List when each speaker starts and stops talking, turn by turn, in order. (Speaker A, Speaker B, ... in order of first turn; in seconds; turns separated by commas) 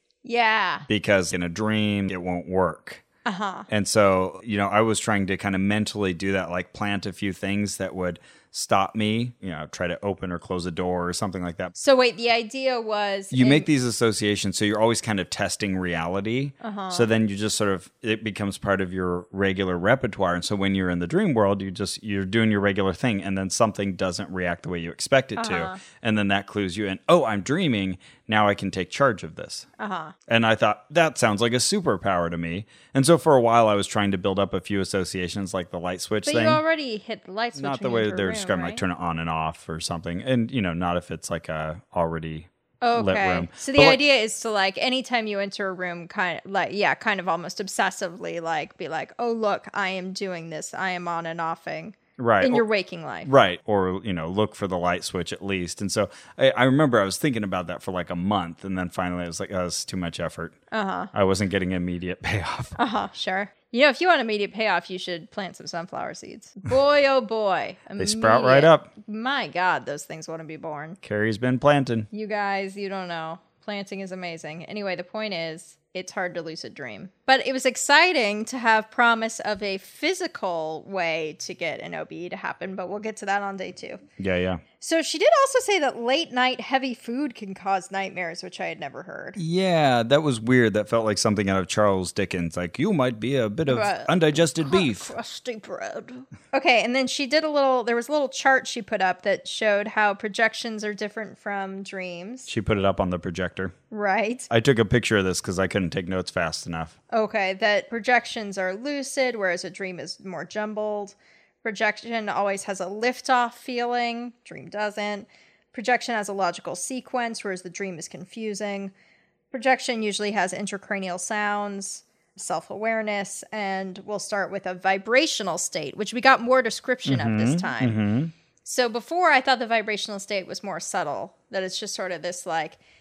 Speaker A: 0.2-0.9, Speaker B: 0.9-3.0, Speaker A: 3.3-3.7, Speaker B: 3.7-11.8, Speaker A: 11.8-13.7, Speaker B: 13.3-29.7, Speaker A: 16.6-17.1, Speaker A: 25.4-25.8, Speaker A: 29.8-30.1, Speaker B: 30.3-36.6, Speaker A: 36.2-38.8, Speaker B: 37.5-44.0, Speaker A: 42.8-53.3, Speaker B: 52.2-52.6, Speaker B: 53.2-60.6, Speaker A: 60.7-61.1, Speaker B: 61.1-62.7, Speaker A: 62.8-71.0, Speaker B: 68.0-68.9, Speaker B: 71.0-72.1, Speaker A: 72.1-84.0, Speaker B: 84.2-84.6, Speaker A: 84.8-89.4, Speaker B: 89.4-95.1, Speaker A: 93.7-102.5, Speaker B: 102.5-103.7, Speaker A: 103.9-104.5, Speaker B: 104.5-107.0, Speaker A: 107.1-118.9, Speaker A: 119.5-128.0, Speaker B: 127.0-128.3, Speaker A: 128.6-132.8